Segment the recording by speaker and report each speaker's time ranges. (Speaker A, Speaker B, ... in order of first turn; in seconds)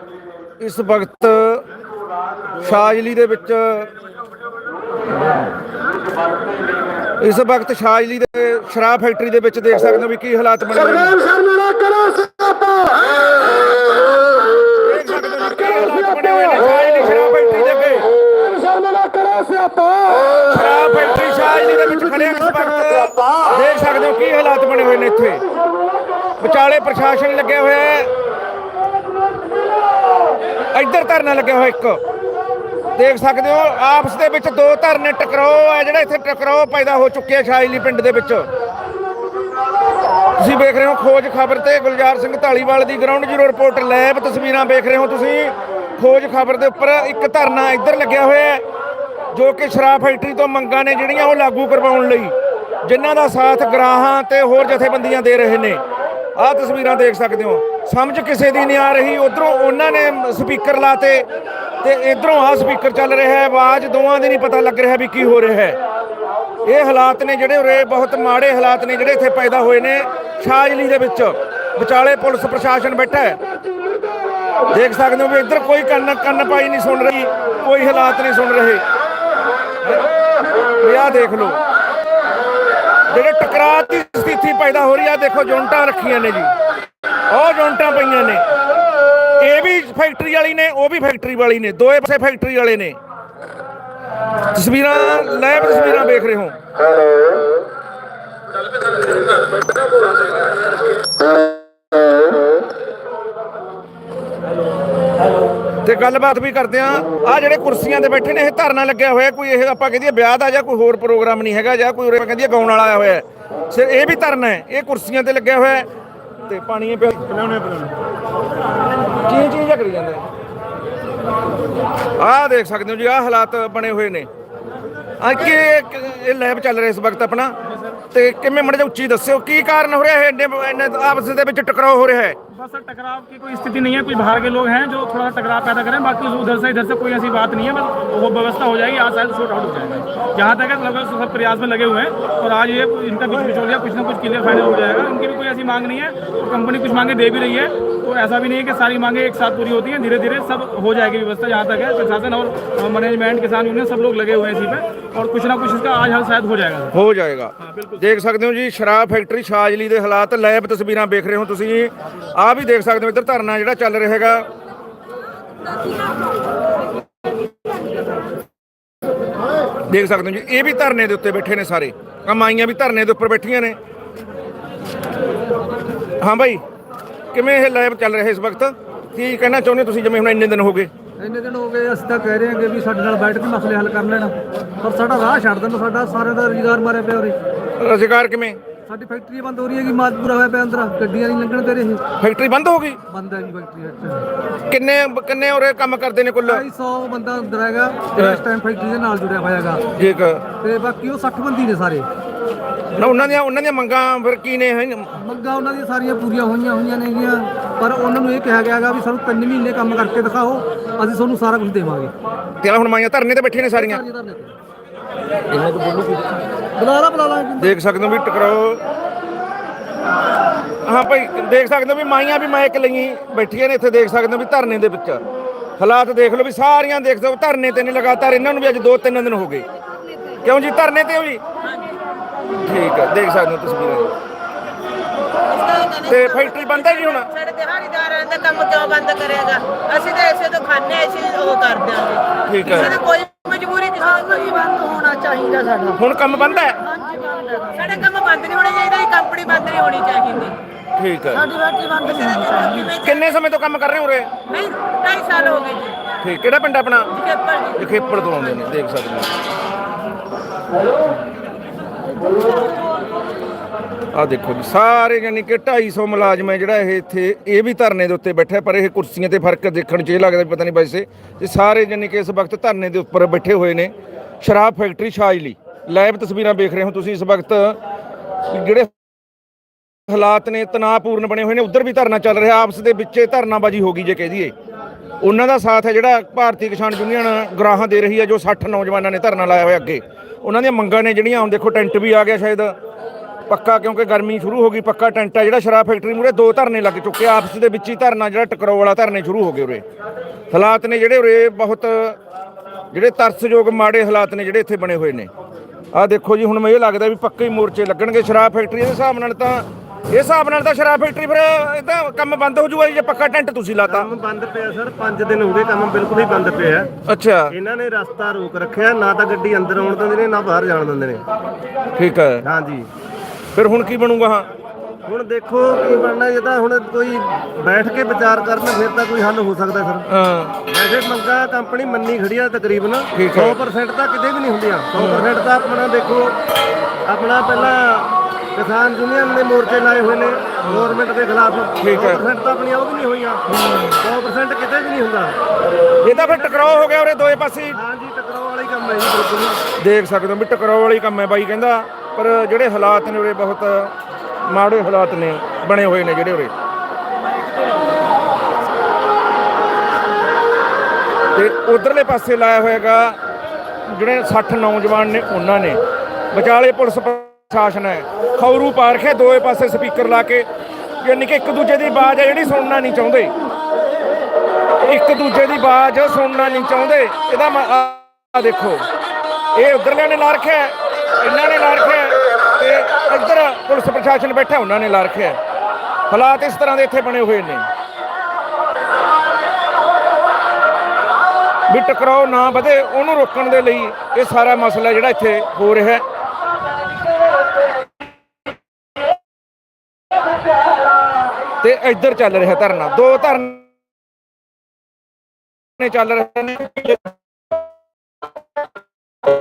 Speaker A: 0.6-1.6, 2.6-3.9, 7.2-11.2, 14.8-18.1, 20.3-25.4, 26.4-28.1, 30.7-32.0, 33.0-38.5, 40.4-48.6, 49.3-55.8, 56.4-61.3, 61.8-65.8, 66.6-73.4, 74.7-78.8, 80.8-81.6, 83.1-86.5, 87.3-88.5, 89.4-93.0, 94.5-96.6, 105.8-115.9, 116.5-117.3, 119.2-120.2, 122.2-124.3, 125.2-127.6, 128.1-132.4, 156.9-164.5, 169.9-173.8, 176.2-176.6, 177.3-180.9, 187.8-188.6, 192.2-193.0, 194.7-196.6, 198.2-198.4, 199.9-200.4, 203.0-205.1, 212.6-214.0, 215.5-216.4, 217.6-218.8, 220.8-225.2, 225.8-229.7, 230.4-231.4, 232.6-234.1, 236.1-237.3, 242.5-243.0, 246.0-246.8, 251.0-251.5, 253.0-254.3, 256.2-257.2, 257.8-259.3, 264.1-277.8, 278.5-278.9, 280.1-284.5, 285.2-292.8, 293.5-299.9, 300.5-302.2, 302.9-305.3, 305.9-314.1, 317.1-317.5, 322.0-322.4, 323.5-324.5, 330.1-330.6, 333.1-333.7, 335.0-335.3, 341.8-342.2, 343.6-343.9, 346.0-347.8, 349.8-353.9, 354.4-356.5, 361.4-363.2, 363.9-365.8, 366.3-370.5, 371.0-373.3, 374.8-378.9, 379.5-385.4, 386.1-387.7, 391.7-396.0, 401.6-403.7, 405.8-407.1
Speaker B: 117.3-117.9, 313.9-316.9, 317.5-321.2, 322.4-322.9, 325.1-330.1, 330.7-336.4, 337.1-345.4, 346.1-346.8, 347.7-349.6
Speaker C: 132.5-156.9
Speaker D: 181.2-187.4, 188.9-192.0, 193.1-194.3, 196.4-199.8, 200.6-202.1, 205.2-212.1, 213.8-214.6, 216.8-217.8, 244.6-245.0, 246.8-248.1, 251.4-252.5
Speaker E: 231.6-231.9, 235.5-245.9, 247.8-250.6, 251.9-253.3, 254.5-256.1, 257.1-257.9